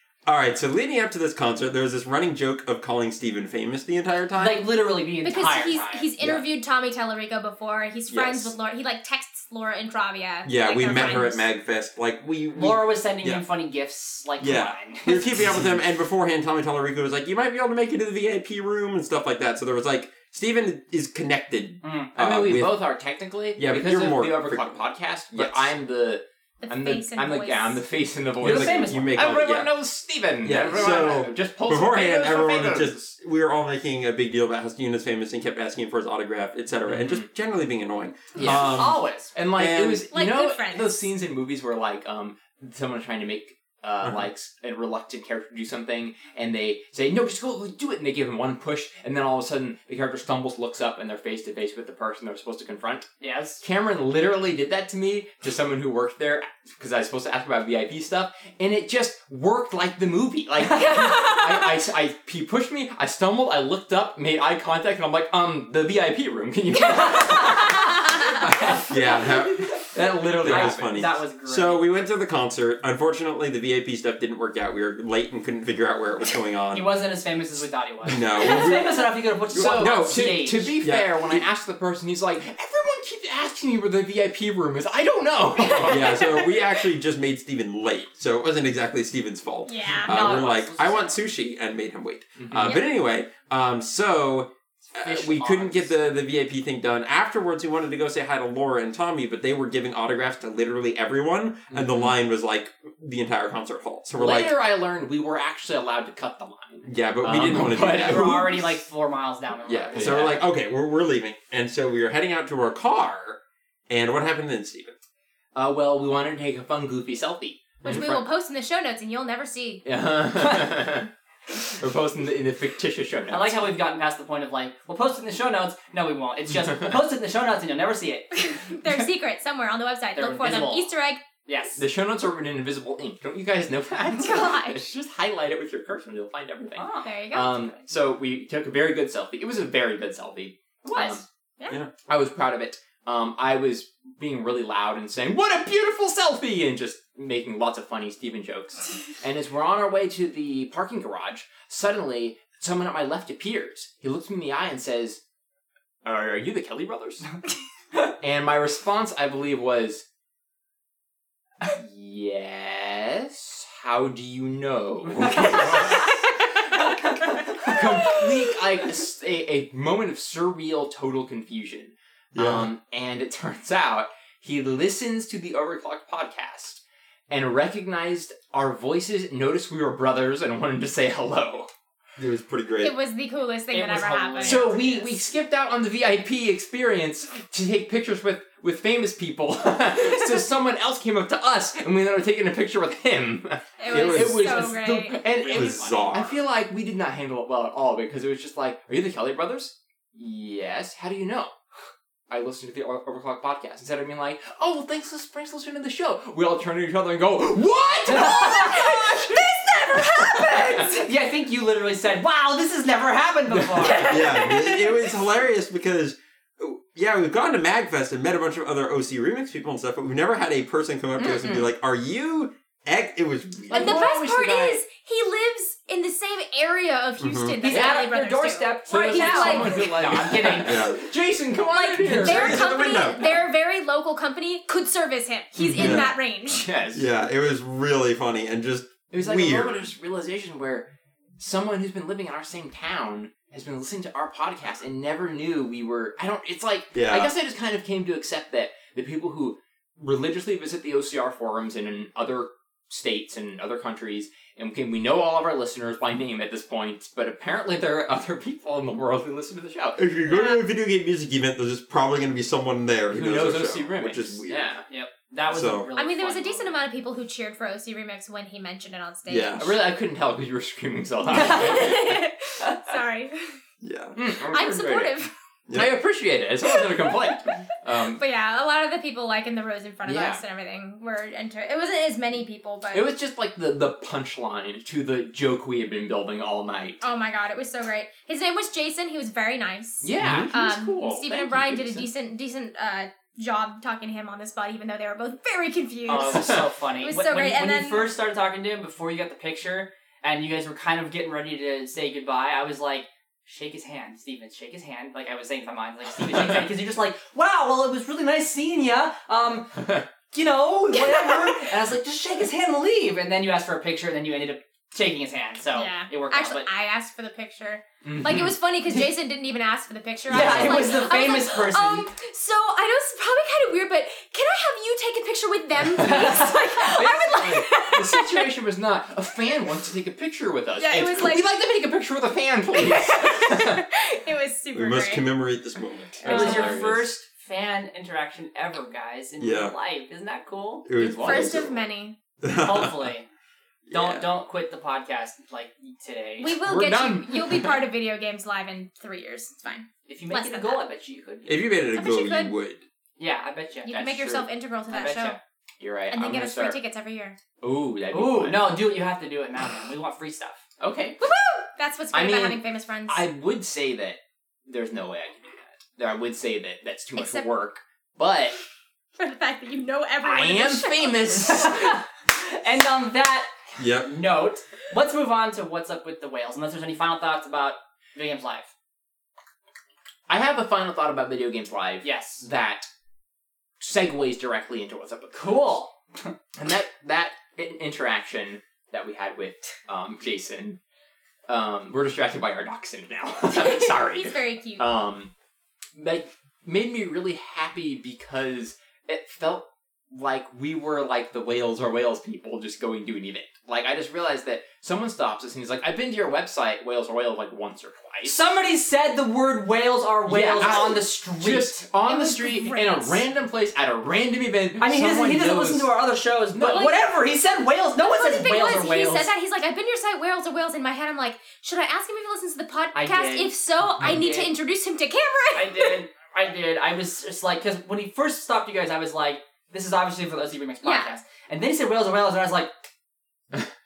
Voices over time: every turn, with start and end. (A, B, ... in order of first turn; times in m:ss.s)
0:00.3-0:04.6 A
0:04.4-0:06.1 B
0:05.2-0:11.5 C
0:06.2-0:06.4 A
0:08.1-0:08.6 A
0:10.4-0:13.4 A
0:12.6-0:15.6 B
0:14.4-0:22.8 A
0:21.8-0:22.1 B
0:22.2-0:33.1 D
0:23.6-0:24.8 A
0:25.3-0:25.7 A
0:26.6-0:27.8 C
0:28.4-0:29.7 A
0:28.4-0:29.7 B
0:30.4-0:39.0 A
0:36.9-0:37.3 D
0:38.4-0:39.3 B
0:38.4-0:38.8 D
0:39.3-0:53.1 D
0:39.6-0:40.0 A
0:40.1-0:41.0 C
0:44.0-0:44.3 A
0:53.2-0:53.6 B
0:53.6-1:07.7 D
1:00.8-1:01.0 B
1:00.8-1:01.8 C
1:06.8-1:08.3 C
1:07.1-1:09.3 B
1:08.4-1:11.0 D
1:08.8-1:16.9 A
1:10.4-1:12.0 B
1:16.7-1:20.7 B
1:18.0-1:21.4 A
1:18.4-1:19.0 C
1:19.5-1:26.5 D
1:25.7-1:26.3 C
1:25.9-1:44.6 A
1:29.7-1:30.2 C
1:30.0-1:31.2 B
1:32.4-1:32.8 D
1:32.6-1:33.0 C
1:34.9-1:35.9 B
1:41.7-1:42.1 D
1:44.2-1:48.7 D
1:46.8-1:48.6 A
1:47.8-1:50.4 B
1:49.7-1:55.0 A
1:49.7-1:50.4 D
1:55.6-1:58.2 D
1:57.8-1:58.2 A
1:57.8-1:59.9 C
1:59.8-2:01.1 D
2:01.6-2:03.7 D
2:03.3-2:08.5 B
2:08.3-2:11.2 C
2:10.2-2:10.9 B
2:11.5-2:11.8 B
2:11.8-2:21.2 D
2:14.1-2:14.8 C
2:16.8-2:17.1 B
2:17.0-2:17.9 C
2:20.8-2:21.2 B
2:20.9-2:21.8 C
2:22.1-2:35.2 D
2:36.0-2:37.3 D
2:38.2-2:40.0 D
2:41.7-2:46.2 D
2:45.1-2:46.1 B
2:47.6-3:01.7 D
2:52.3-2:52.7 A
3:02.2-3:03.0 A
3:02.8-3:04.8 C
3:03.7-3:05.2 B
3:04.4-3:21.6 D
3:13.8-3:15.2 C
3:13.9-3:14.7 A
3:15.2-3:16.3 B
3:15.4-3:16.4 A
3:22.3-3:30.9 D
3:28.1-3:29.0 B
3:28.5-3:30.9 C
3:30.0-3:34.5 B
3:33.5-3:34.1 D
3:33.8-3:35.0 C
3:34.0-3:44.1 A
3:41.2-3:41.6 C
3:43.6-3:44.8 D
3:43.7-3:50.2 C
3:47.2-3:47.6 A
3:47.6-3:50.9 B
3:47.7-3:48.0 D
3:48.9-3:53.0 D
3:50.5-3:51.0 A
3:51.7-3:56.7 C
3:52.0-3:53.4 A
3:55.6-3:57.1 D
3:55.6-3:56.1 A
3:56.9-3:59.8 A
3:59.1-4:20.0 D
4:06.9-4:07.3 A
4:20.0-4:24.7 A
4:20.3-4:20.6 C
4:23.1-4:24.9 D
4:24.9-4:26.8 B
4:25.4-4:25.9 A
4:26.0-4:29.7 C
4:29.3-4:29.8 A
4:29.6-4:31.9 D
4:31.3-4:33.6 C
4:31.3-4:31.9 B
4:33.8-4:34.2 A
4:34.2-4:35.2 D
4:34.5-4:35.3 C
4:35.7-4:36.0 A
4:35.7-4:38.2 D
4:36.7-4:37.4 C
4:38.1-4:43.1 C
4:40.1-4:40.4 D
4:42.9-4:47.0 D
4:47.0-4:58.1 C
4:50.0-4:52.1 D
4:50.2-4:50.5 A
4:56.1-5:16.7 B
4:56.1-4:56.6 D
5:09.8-5:10.1 D
5:10.9-5:11.7 C
5:15.7-5:28.5 C
5:18.0-5:18.6 D
5:20.3-5:22.1 B
5:20.3-5:21.0 D
5:25.9-5:33.8 D
5:25.9-5:26.7 B
5:30.8-5:31.5 C
5:32.7-5:35.3 C
5:34.7-5:36.6 A
5:36.2-5:37.1 D
5:36.2-5:40.9 B
5:36.3-5:36.8 C
5:39.4-5:39.7 A
5:40.8-5:41.8 A
5:41.0-5:41.6 D
5:41.2-5:42.2 C
5:42.4-5:43.1 A
5:42.6-5:43.3 B
5:43.9-5:44.3 A
5:43.9-5:46.6 B
5:46.4-5:50.8 C
5:46.6-5:47.8 D
5:50.1-5:51.6 B
5:51.5-5:52.8 A
5:51.9-5:52.5 C
5:53.2-5:55.4 B
5:53.8-5:55.4 C
5:55.8-5:56.8 D
5:56.1-5:57.4 C
5:57.6-5:58.8 D
5:58.1-6:00.6 B
6:00.8-6:01.2 D
6:01.2-6:03.2 C
6:02.1-6:08.6 D
6:07.2-6:07.5 C
6:09.2-6:11.7 C
6:10.2-6:12.0 D
6:11.4-6:18.7 B
6:13.8-6:14.1 A
6:20.3-6:22.9 D
6:22.0-6:22.5 B
6:23.8-6:25.7 D
6:25.3-6:26.3 B
6:26.6-6:30.8 D
6:31.5-6:35.3 D
6:33.5-6:34.9 C
6:36.0-6:48.4 D
6:48.2-6:51.8 B
6:50.3-6:55.9 D
6:52.0-6:53.3 C
6:54.8-6:59.3 B
6:56.5-6:56.9 D
6:56.6-6:57.0 C
6:58.0-7:06.0 C
7:03.0-7:04.5 B
7:05.6-7:12.7 B
7:10.8-7:11.1 C